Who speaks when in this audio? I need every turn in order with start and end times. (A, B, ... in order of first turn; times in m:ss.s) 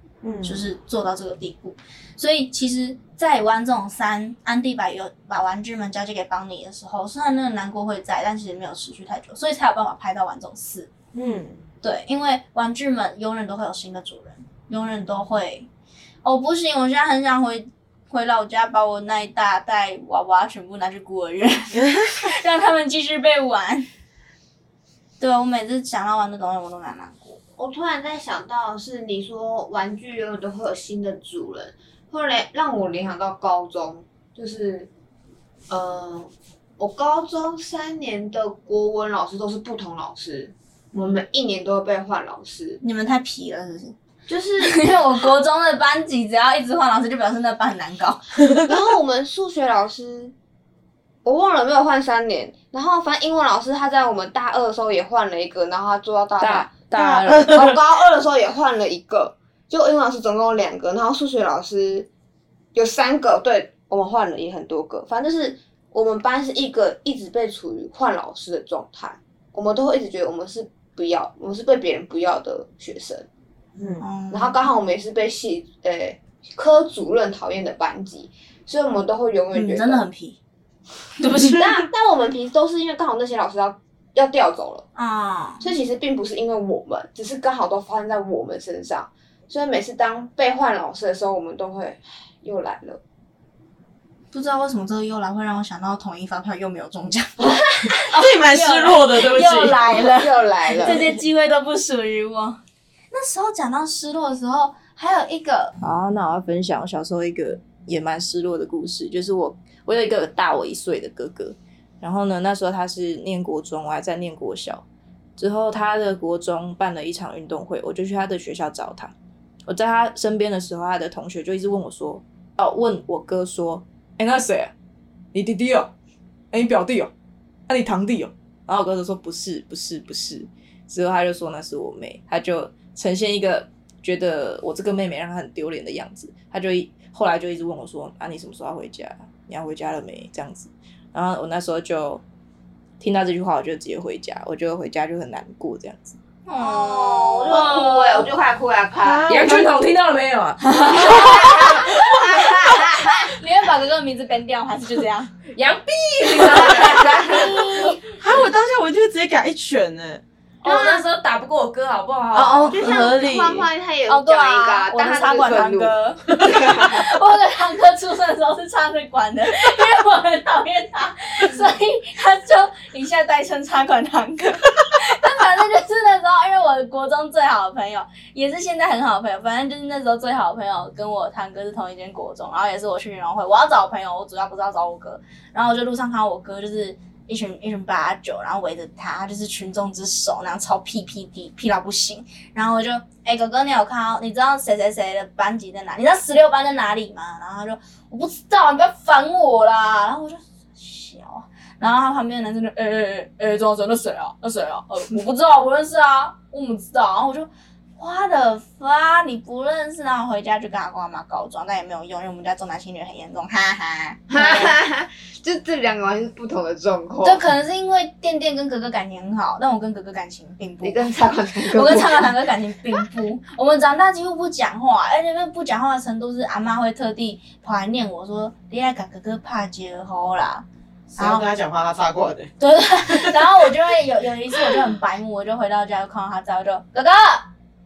0:00.2-0:00.6 A
0:00.4-0:10.9 B
0:11.1-0:11.6 A
0:11.8-0:15.7 B
0:16.2-0:23.9 B
0:25.2-0:27.4 B
0:27.6-0:34.9 C
0:35.7-0:42.8 C
0:42.8-0:43.9 B
0:44.3-0:44.9 C
0:44.6-0:48.3 B
0:48.6-0:50.3 C
0:51.2-0:56.7 C
0:56.4-0:57.6 D
0:56.9-0:57.8 A
0:57.5-1:02.1 C
1:02.7-1:13.3 C
1:13.8-1:14.0 A
1:14.0-1:14.6 B
1:14.3-1:20.0 C
1:19.5-1:20.4 B
1:21.2-1:21.6 B
1:21.3-1:24.8 C
1:25.0-1:25.7 B
1:25.6-1:33.0 C
1:34.3-1:42.6 B
1:38.1-1:40.0 A
1:40.1-1:41.0 C
1:43.1-1:45.7 B
1:45.8-1:54.8 D
1:55.4-1:59.1 D
1:59.7-2:04.7 D
2:05.3-2:05.9 D
2:06.5-2:07.1 D
2:07.7-2:22.2 D
2:23.0-2:26.2 D
2:26.4-2:28.2 B
2:26.6-2:29.3 C
2:29.0-2:29.7 A
2:29.3-2:31.8 D
2:30.7-2:32.2 B
2:30.9-2:33.3 C
2:33.2-2:35.3 B
2:35.5-2:37.5 D
2:36.5-2:38.0 B
2:36.6-2:37.4 C
2:38.1-2:40.2 A
2:40.6-2:42.9 D
2:40.6-2:41.0 B
2:42.3-2:43.7 A
2:42.7-2:45.9 C
2:44.1-3:34.7 B
2:46.4-2:46.7 A
2:46.6-2:46.9 C
3:34.3-3:37.5 C
3:37.2-3:50.6 B
3:40.8-3:42.4 C
3:51.1-3:52.5 A
3:51.2-3:51.4 B
3:52.6-3:57.5 B
3:53.1-3:53.4 A